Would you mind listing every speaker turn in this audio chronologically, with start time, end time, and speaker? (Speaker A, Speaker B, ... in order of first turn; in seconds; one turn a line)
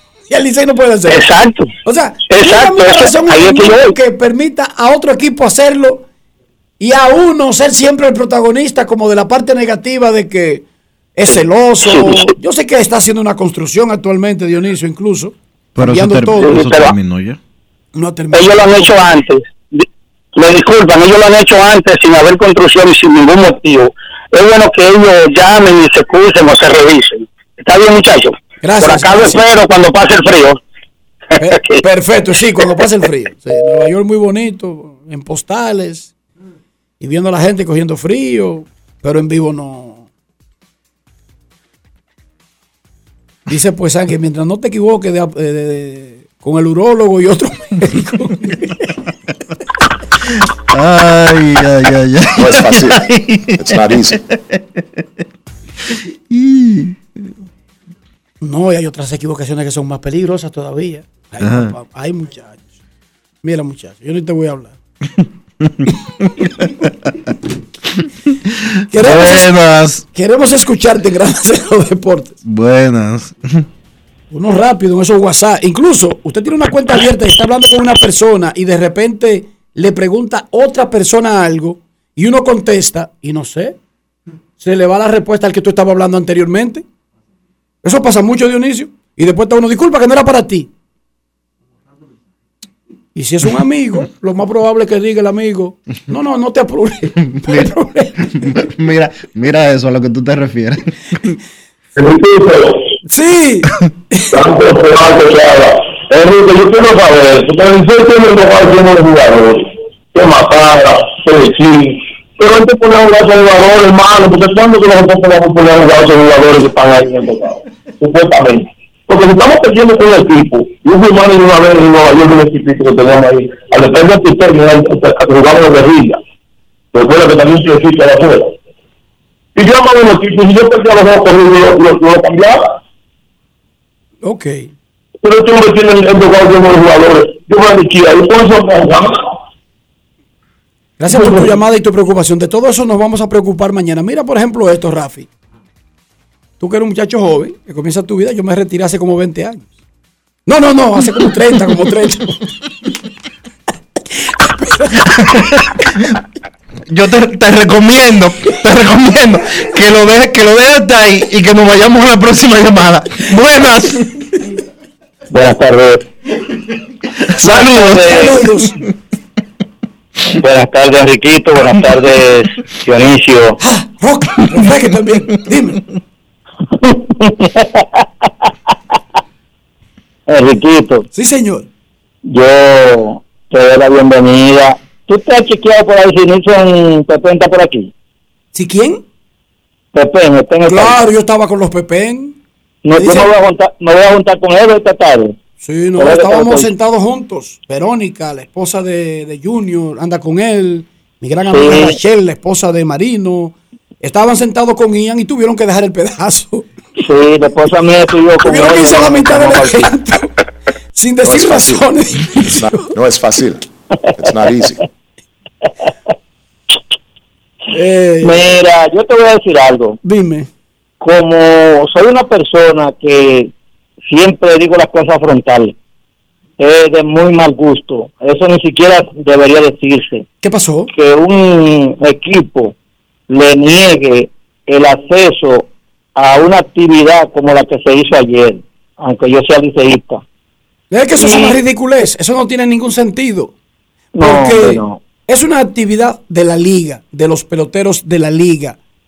Speaker A: 0.3-1.3
Speaker B: 1.1-1.7
Speaker A: 1.9-6.0
Speaker B: 2.3-3.9
Speaker A: 6.8-10.6
Speaker A: 11.2-16.7
Speaker B: 11.8-12.3
Speaker C: 15.8-17.4
Speaker B: 16.5-16.9
Speaker A: 17.9-18.7
Speaker B: 18.3-19.8
Speaker B: 20.4-30.6
Speaker A: 28.6-29.4
Speaker A: 31.4-36.1
Speaker B: 31.5-31.8
Speaker A: 37.0-40.1
Speaker A: 43.5-48.9
Speaker C: 50.7-55.0
Speaker D: 52.4-54.2
Speaker C: 56.3-57.0
Speaker A: 58.4-62.6
Speaker C: 61.4-61.7
Speaker A: 63.4-64.8
Speaker C: 65.6-66.9
Speaker C: 68.5-70.0
Speaker A: 68.9-69.5
Speaker A: 70.1-72.4
Speaker C: 72.4-73.7
Speaker A: 74.3-83.8
Speaker A: 84.6-86.8
Speaker A: 87.8-90.7
Speaker A: 93.2-98.4
Speaker C: 97.3-97.7
Speaker C: 98.4-101.3
Speaker E: 102.0-102.9
Speaker A: 103.1-104.4
Speaker E: 104.3-126.2
Speaker E: 126.9-128.5
Speaker E: 129.6-132.8
Speaker A: 134.2-134.7
Speaker E: 135.2-139.3
Speaker A: 141.0-145.3
Speaker A: 146.6-149.7
Speaker A: 150.5-152.5
Speaker A: 154.4-154.9
Speaker C: 155.2-155.8
Speaker C: 156.9-164.1
Speaker B: 165.3-166.0
Speaker B: 167.4-168.4
Speaker C: 167.4-168.1
Speaker A: 167.4-168.8
Speaker B: 170.4-173.6
Speaker A: 173.6-175.8
Speaker B: 176.8-178.1
Speaker B: 180.3-181.1
Speaker A: 181.1-181.7
Speaker B: 182.3-187.9
Speaker A: 188.5-189.0
Speaker B: 189.9-191.0
Speaker A: 190.7-192.4
Speaker B: 192.8-195.4
Speaker A: 193.0-193.3
Speaker A: 195.6-206.7
Speaker B: 196.0-196.7
Speaker B: 201.5-202.0
Speaker B: 207.0-209.9
Speaker A: 208.4-210.3
Speaker A: 211.0-212.8
Speaker D: 211.2-213.7
Speaker D: 214.2-214.8
Speaker A: 217.7-218.4
Speaker B: 218.2-220.0
Speaker A: 220.0-220.5
Speaker B: 221.0-223.5
Speaker B: 224.1-225.7
Speaker B: 226.6-230.2
Speaker A: 230.4-230.9
Speaker B: 230.9-232.7
Speaker B: 233.3-240.2
Speaker A: 240.9-243.5
Speaker B: 241.2-241.6
Speaker B: 244.2-245.0
Speaker A: 244.2-248.8